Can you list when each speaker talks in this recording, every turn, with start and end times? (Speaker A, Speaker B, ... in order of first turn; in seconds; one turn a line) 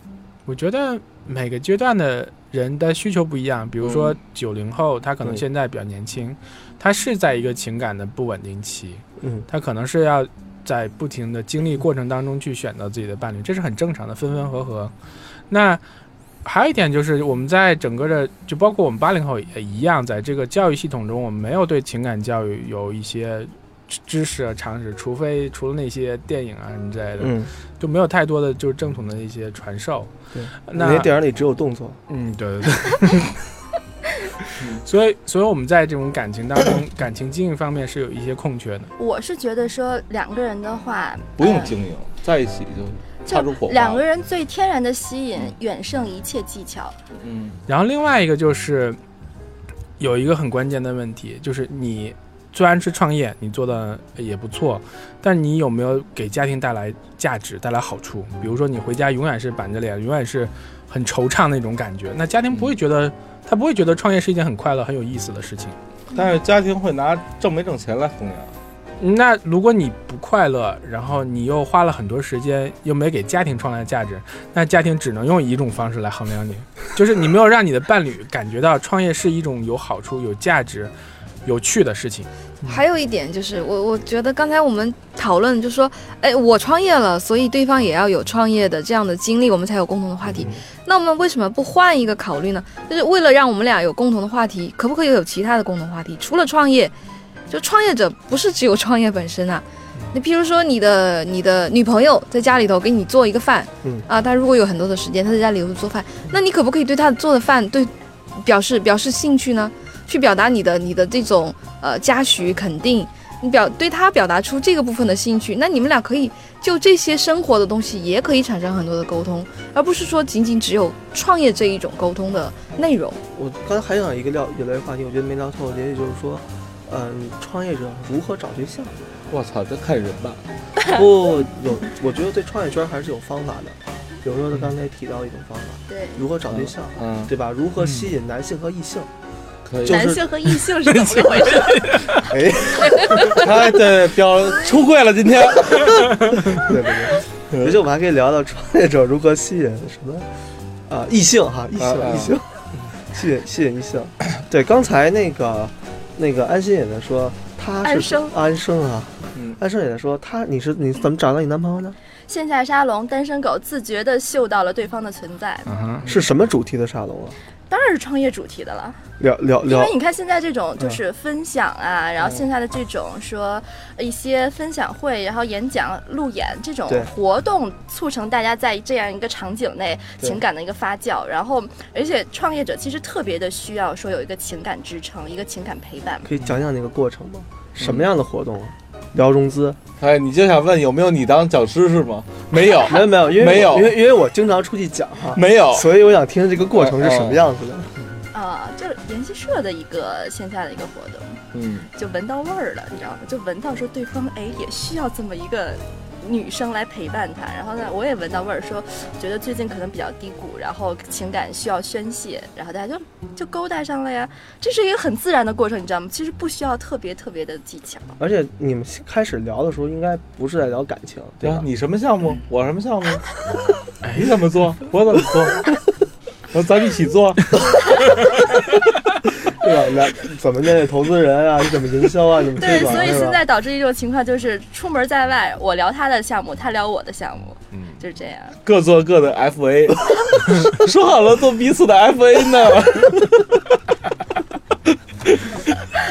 Speaker A: 0.5-14.9
Speaker B: 3.8-4.2
Speaker C: 9.2-9.4
Speaker A: 15.5-15.8
Speaker A: 16.4-30.1
Speaker C: 27.2-27.5
Speaker C: 30.3-32.0
Speaker A: 30.7-31.1
Speaker A: 32.1-33.4
Speaker A: 34.8-38.9
Speaker D: 39.0-41.7
Speaker B: 41.4-44.0
Speaker D: 43.2-47.1
Speaker B: 47.2-47.6
Speaker A: 47.7-49.0
Speaker A: 50.0-65.8
Speaker B: 66.1-68.5
Speaker A: 69.0-80.9
Speaker A: 81.4-82.3
Speaker E: 82.6-96.9
Speaker E: 97.5-123.2
Speaker C: 123.3-129.1
Speaker B: 129.3-130.4
Speaker C: 130.8-139.1
Speaker D: 135.9-136.2
Speaker B: 136.5-137.3
Speaker B: 139.6-140.2
Speaker C: 139.8-140.1
Speaker D: 139.9-142.1
Speaker A: 140.8-142.3
Speaker C: 142.3-143.2
Speaker D: 142.8-143.4
Speaker B: 143.3-146.7
Speaker C: 146.6-150.3
Speaker C: 150.9-152.4
Speaker B: 151.8-152.4
Speaker C: 153.0-162.0
Speaker D: 157.8-158.3
Speaker D: 162.3-165.7
Speaker A: 165.7-166.1
Speaker C: 166.1-167.4
Speaker D: 167.7-169.0
Speaker C: 169.2-169.9
Speaker D: 169.6-186.3
Speaker C: 186.2-189.8
Speaker B: 187.8-188.1
Speaker B: 190.0-194.0
Speaker C: 192.9-197.9
Speaker B: 195.3-195.9
Speaker B: 196.7-197.4
Speaker D: 198.3-218.1
Speaker B: 201.5-201.9
Speaker C: 218.2-221.7
Speaker B: 221.4-223.2
Speaker A: 224.0-224.3
Speaker B: 224.1-225.8
Speaker B: 226.5-227.8
Speaker C: 229.5-233.4
Speaker D: 232.6-238.6
Speaker A: 237.7-238.0
Speaker B: 238.6-243.6
Speaker B: 245.3-245.7